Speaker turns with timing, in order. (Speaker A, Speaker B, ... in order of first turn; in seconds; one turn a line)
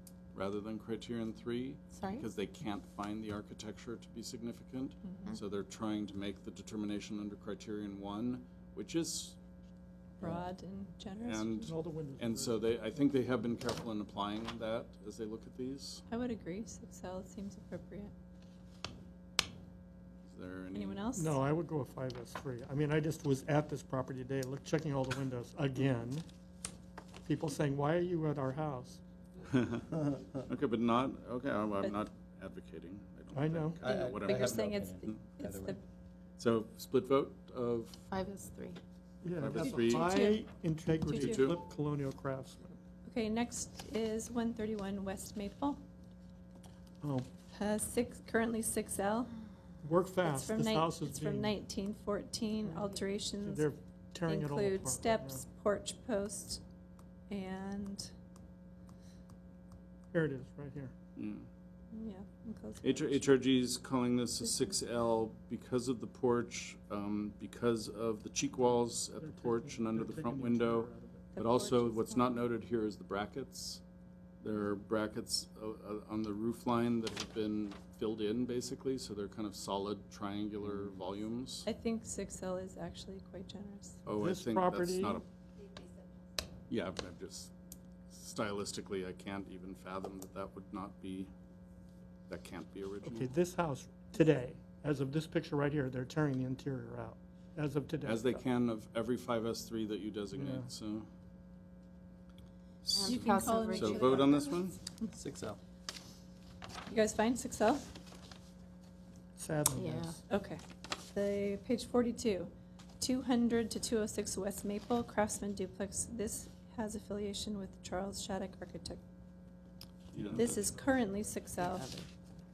Speaker A: 0.3-9.3
Speaker B: 1.9-2.2
Speaker C: 10.2-11.7
Speaker A: 11.2-16.0
Speaker D: 11.6-12.7
Speaker C: 16.1-18.1
Speaker A: 20.3-21.0
Speaker C: 20.7-21.4
Speaker D: 21.1-26.2
Speaker D: 27.2-29.0
Speaker A: 29.5-35.2
Speaker D: 33.3-33.8
Speaker E: 33.8-35.8
Speaker C: 34.0-35.8
Speaker A: 36.4-38.0
Speaker B: 38.1-38.8
Speaker D: 39.2-42.8
Speaker A: 39.4-40.2
Speaker C: 39.6-40.4
Speaker C: 41.0-41.5
Speaker A: 41.1-41.6
Speaker C: 43.0-45.8
Speaker D: 47.0-47.3
Speaker C: 47.5-49.3
Speaker D: 49.8-51.5
Speaker C: 50.2-53.7
Speaker D: 52.7-55.4
Speaker C: 54.3-56.6
Speaker C: 57.3-58.1
Speaker D: 60.1-60.9
Speaker A: 61.1-61.5
Speaker C: 61.9-63.2
Speaker A: 62.8-73.8
Speaker D: 69.2-71.2
Speaker C: 71.3-72.3
Speaker A: 74.4-81.7
Speaker C: 81.6-84.0
Speaker A: 84.0-85.2
Speaker D: 84.1-85.2
Speaker A: 86.7-87.5
Speaker A: 88.1-91.3
Speaker A: 92.3-93.3
Speaker D: 93.0-98.4
Speaker A: 98.0-101.1
Speaker D: 100.3-100.7
Speaker A: 102.8-104.8
Speaker B: 102.9-104.0
Speaker C: 103.0-104.6
Speaker E: 105.1-105.6
Speaker C: 106.9-107.9
Speaker D: 109.4-110.2
Speaker B: 109.7-110.2
Speaker C: 110.3-119.0
Speaker A: 120.1-120.6
Speaker E: 120.2-120.5
Speaker C: 120.3-121.9
Speaker B: 121.6-122.0